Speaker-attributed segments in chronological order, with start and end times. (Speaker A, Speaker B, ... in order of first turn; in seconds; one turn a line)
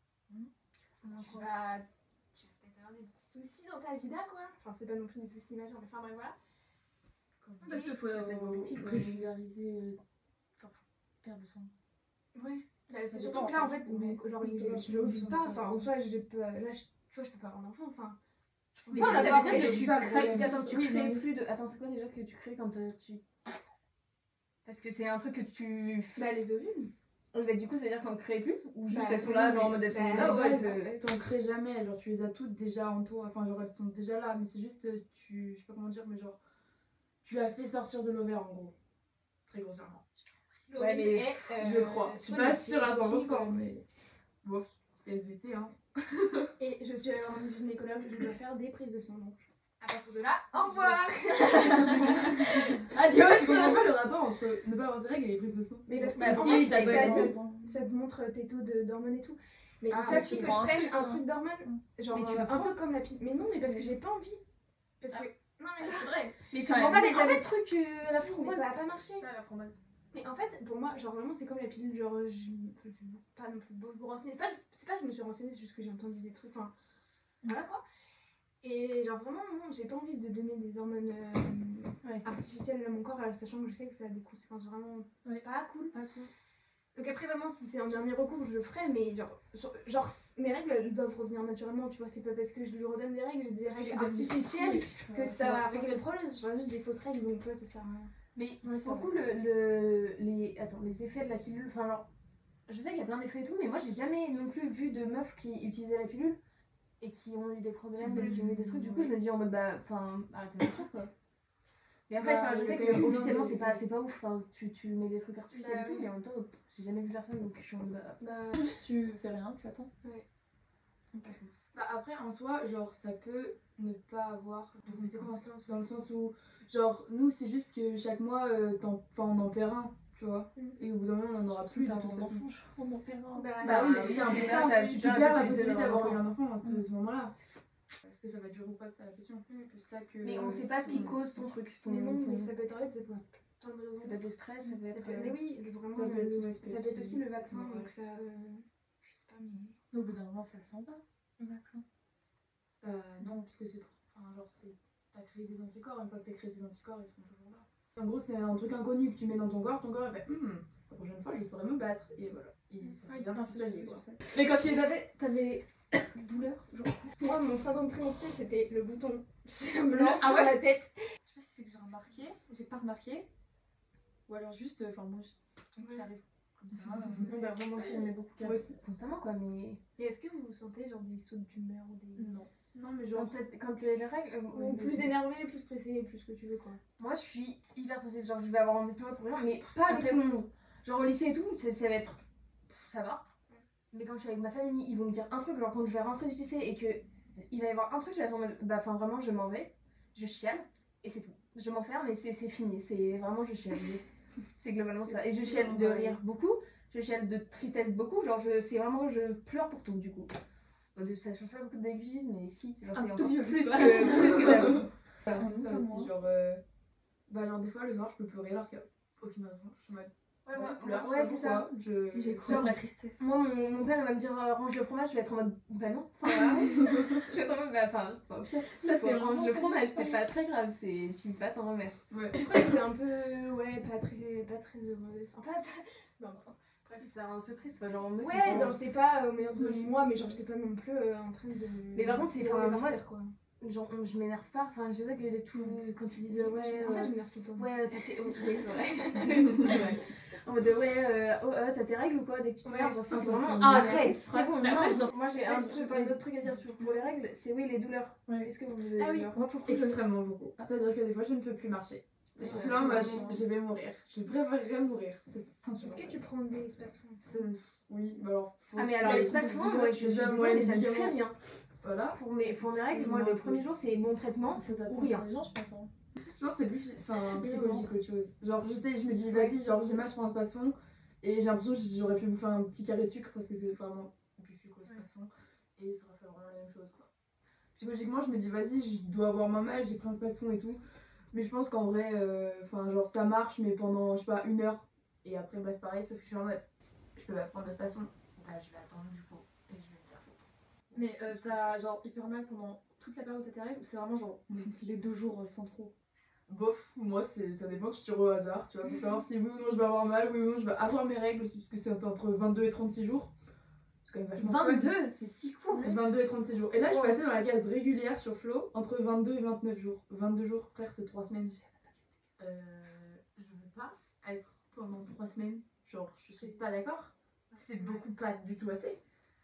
Speaker A: 0.3-1.5
Speaker B: 1.1-6.3
Speaker B: 7.4-8.0
Speaker A: 7.6-10.0
Speaker C: 8.0-9.3
Speaker A: 10.6-11.7
Speaker B: 12.3-18.2
Speaker A: 12.9-15.6
Speaker B: 18.8-19.8
Speaker A: 18.9-21.2
Speaker C: 18.9-23.2
Speaker D: 18.9-20.5
Speaker C: 24.6-26.2
Speaker B: 26.1-26.9
Speaker C: 27.3-31.1
Speaker B: 28.9-30.8
Speaker D: 30.0-36.4
Speaker D: 37.2-38.7
Speaker D: 39.5-40.1
Speaker B: 40.7-43.6
Speaker C: 40.7-41.8
Speaker D: 41.5-43.8
Speaker D: 44.4-46.5
Speaker B: 46.6-52.7
Speaker C: 50.7-53.9
Speaker D: 52.3-56.2
Speaker B: 55.9-64.4
Speaker C: 56.1-57.4
Speaker A: 56.1-57.8
Speaker D: 59.9-60.6
Speaker A: 59.9-62.7
Speaker A: 63.5-64.0
Speaker B: 65.0-69.2
Speaker C: 65.8-69.8
Speaker A: 66.0-67.0
Speaker B: 70.1-76.7
Speaker B: 77.5-77.8
Speaker B: 78.6-85.9
Speaker A: 85.2-86.3
Speaker B: 86.9-98.1
Speaker A: 93.8-96.0
Speaker C: 98.3-102.1
Speaker A: 98.6-99.1
Speaker C: 102.7-106.4
Speaker C: 107.0-111.1
Speaker B: 108.1-108.4
Speaker C: 112.1-118.2
Speaker B: 112.4-113.8
Speaker B: 115.5-116.1
Speaker B: 118.2-118.6
Speaker A: 118.5-119.9
Speaker D: 121.7-132.4
Speaker B: 124.8-126.0
Speaker A: 131.7-133.7
Speaker B: 133.3-134.9
Speaker C: 133.6-136.2
Speaker D: 133.6-137.3
Speaker D: 138.0-141.2
Speaker C: 140.2-142.5
Speaker B: 141.8-149.8
Speaker C: 144.0-145.4
Speaker D: 145.9-147.9
Speaker A: 149.9-151.8
Speaker D: 152.8-164.0
Speaker A: 153.2-153.5
Speaker A: 162.8-166.9
Speaker C: 164.3-164.8
Speaker B: 167.2-170.9
Speaker A: 169.9-170.6
Speaker A: 171.2-173.3
Speaker A: 174.3-177.3
Speaker B: 175.8-176.1
Speaker C: 177.2-179.8
Speaker B: 177.3-177.9
Speaker D: 178.4-178.8
Speaker B: 180.0-182.3
Speaker A: 182.2-182.5
Speaker D: 182.7-183.4
Speaker C: 183.1-185.2
Speaker B: 184.5-186.8
Speaker C: 187.0-193.2
Speaker B: 189.8-190.3
Speaker C: 193.9-210.3
Speaker C: 210.9-214.8
Speaker A: 212.9-216.1
Speaker D: 214.6-216.6
Speaker D: 217.3-222.7
Speaker C: 220.4-221.7
Speaker A: 222.1-223.2
Speaker C: 222.4-232.0
Speaker A: 228.4-230.3
Speaker D: 232.1-232.7
Speaker B: 232.3-236.5
Speaker C: 236.9-238.8
Speaker B: 238.2-243.3
Speaker D: 239.5-240.4
Speaker C: 241.9-243.0
Speaker C: 243.6-259.4
Speaker B: 246.3-248.0
Speaker B: 252.6-253.3
Speaker D: 253.1-254.1
Speaker A: 253.6-256.2
Speaker B: 259.0-259.3
Speaker A: 259.0-260.0
Speaker D: 259.6-266.2
Speaker C: 262.4-263.3
Speaker B: 262.4-263.4
Speaker A: 262.6-263.4
Speaker B: 265.8-267.4
Speaker D: 267.2-271.2
Speaker C: 268.8-271.4
Speaker D: 271.8-272.2
Speaker C: 272.1-275.2
Speaker A: 272.7-273.6
Speaker A: 274.6-275.9
Speaker D: 276.4-287.1
Speaker A: 277.3-277.9
Speaker D: 287.7-290.8
Speaker D: 291.3-296.6
Speaker D: 297.1-301.8
Speaker A: 300.9-305.9
Speaker D: 306.5-313.3
Speaker D: 314.0-315.0
Speaker A: 314.4-315.9
Speaker D: 315.8-321.6
Speaker A: 316.9-317.2
Speaker D: 322.4-329.0